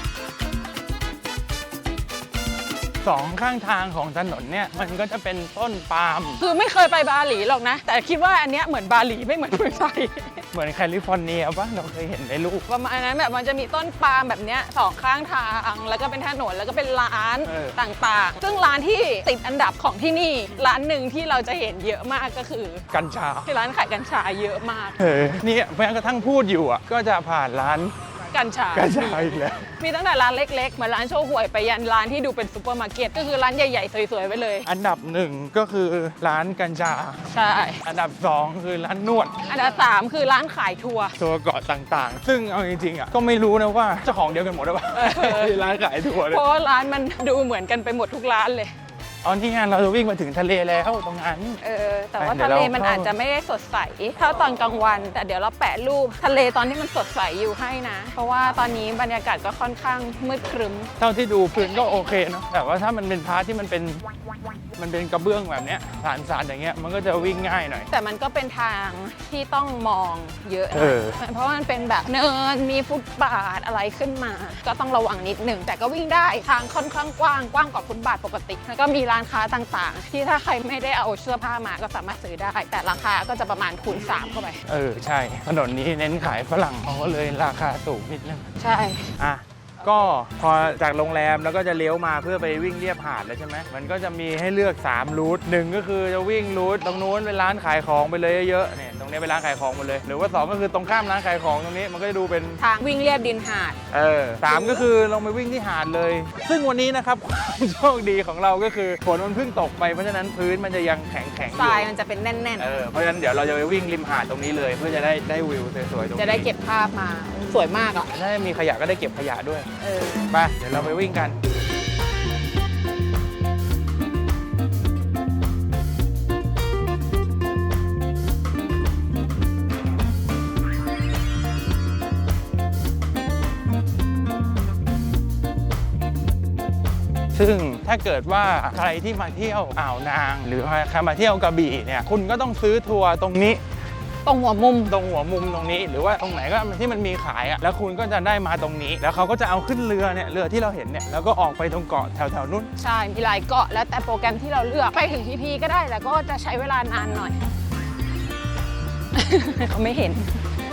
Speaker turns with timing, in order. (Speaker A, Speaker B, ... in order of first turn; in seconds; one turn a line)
Speaker A: 3.0-6.4
Speaker B: 6.4-10.4
Speaker A: 10.5-12.7
Speaker B: 12.7-22.9
Speaker A: 17.4-17.8
Speaker A: 22.9-23.5
Speaker B: 23.5-25.0
Speaker A: 25.0-27.9
Speaker B: 28.3-34.7
Speaker A: 28.7-29.7
Speaker A: 34.7-37.3
Speaker B: 37.3-37.8
Speaker A: 37.8-39.5
Speaker B: 39.5-41.2
Speaker A: 41.2-46.4
Speaker B: 44.9-48.7
Speaker A: 49.2-51.6
Speaker B: 51.6-60.9
Speaker A: 52.2-53.1
Speaker A: 61.0-64.1
Speaker B: 61.6-62.1
Speaker A: 64.8-67.9
Speaker B: 67.9-84.6
Speaker A: 70.7-71.2
Speaker A: 84.1-88.5
Speaker B: 88.6-89.1
Speaker A: 89.2-102.6
Speaker B: 102.6-103.8
Speaker A: 103.9-111.9
Speaker B: 104.5-104.8
Speaker B: 111.6-112.7
Speaker A: 112.6-116.5
Speaker B: 116.2-118.1
Speaker A: 118.1-119.7
Speaker B: 119.8-120.3
Speaker A: 120.3-121.4
Speaker A: 137.3-143.6
Speaker B: 144.3-144.9
Speaker A: 144.9-152.7
Speaker B: 152.8-157.4
Speaker B: 159.2-160.3